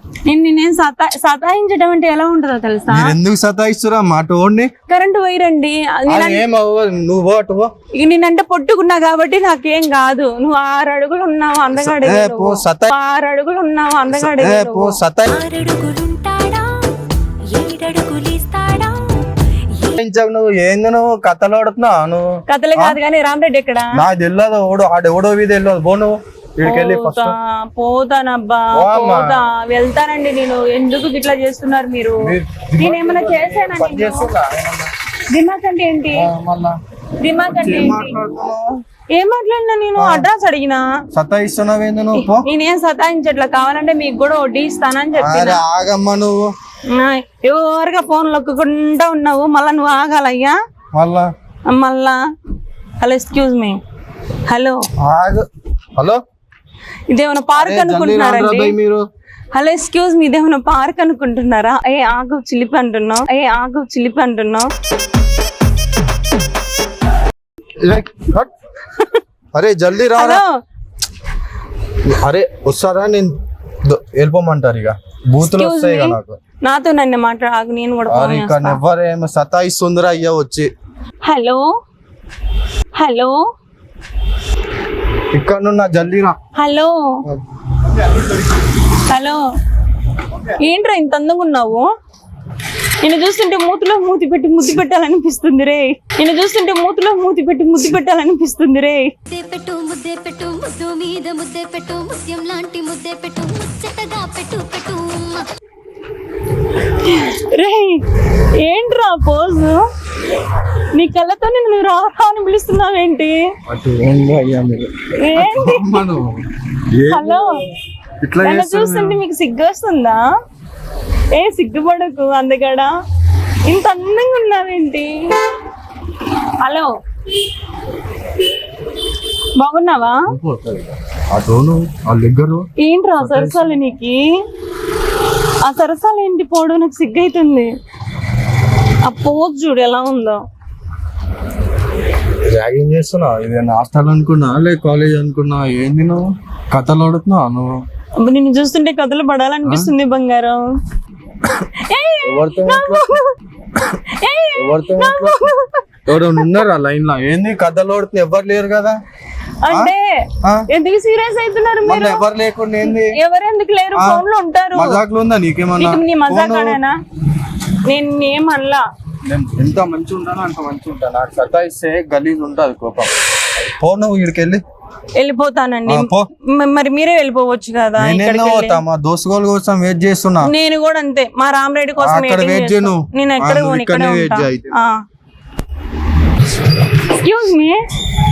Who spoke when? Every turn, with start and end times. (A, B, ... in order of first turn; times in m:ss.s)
0:00.3-0:03.2 A
0:02.9-0:04.7 B
0:04.9-0:06.4 A
0:06.1-0:07.7 B
0:08.0-0:15.0 A
0:11.7-0:12.9 B
0:14.1-0:15.3 B
0:15.3-0:19.9 C
0:20.0-0:23.0 B
0:22.5-0:24.0 A
0:23.9-0:27.3 B
0:26.6-0:34.3 A
0:28.7-0:29.4 B
0:32.2-0:34.9 B
0:35.3-0:36.3 A
0:36.1-0:36.8 B
0:37.2-0:38.2 A
0:37.5-0:38.8 B
0:39.1-0:40.8 A
0:40.0-0:40.3 B
0:41.1-0:42.5 B
0:42.2-0:45.6 A
0:45.2-0:46.5 B
0:46.9-0:50.6 A
0:50.9-0:51.3 B
0:51.7-0:52.2 A
0:53.0-0:53.8 A
0:54.5-0:54.8 A
0:55.0-0:56.2 B
0:57.1-0:58.8 A
0:57.6-0:59.0 B
0:59.5-1:04.7 A
1:07.8-1:08.5 B
1:09.5-1:10.4 B
1:10.1-1:10.5 A
1:12.0-1:16.4 B
1:15.4-1:18.8 A
1:18.1-1:20.7 B
1:21.2-1:21.6 A
1:23.0-1:23.4 A
1:25.3-1:26.4 B
1:26.6-1:27.2 A
1:28.9-1:29.4 A
1:30.6-1:31.9 A
1:33.0-1:39.1 A
1:39.3-1:45.5 C
1:46.8-1:49.8 A
1:50.6-1:53.4 A
1:53.7-1:57.6 B
1:55.2-1:56.0 A
1:57.1-1:57.6 A
1:58.2-1:59.2 B
1:58.4-2:00.2 A
2:01.3-2:02.9 A
2:03.7-2:05.3 A
2:06.6-2:06.9 A
2:09.6-2:10.2 A
2:10.3-2:13.8 B
2:12.8-2:14.2 A
2:15.6-2:17.7 A
2:19.0-2:20.4 A
2:22.5-2:27.8 B
2:28.2-2:30.6 A
2:29.6-2:29.9 B
2:31.7-2:33.3 A
2:32.2-2:33.2 B
2:33.9-2:35.8 A
2:34.6-2:35.4 B
2:36.1-2:39.0 B
2:36.4-2:36.6 A
2:39.6-2:42.2 A
2:39.7-2:40.7 B
2:41.8-2:43.2 B
2:42.8-2:45.0 A
2:44.0-2:46.8 B
2:45.8-2:47.0 A
2:47.9-2:48.8 A
2:49.2-2:54.6 B
2:55.2-2:58.8 A
2:55.9-2:56.3 B
2:58.0-3:00.5 B
3:00.4-3:05.0 A
3:02.0-3:04.7 B
3:07.0-3:07.8 A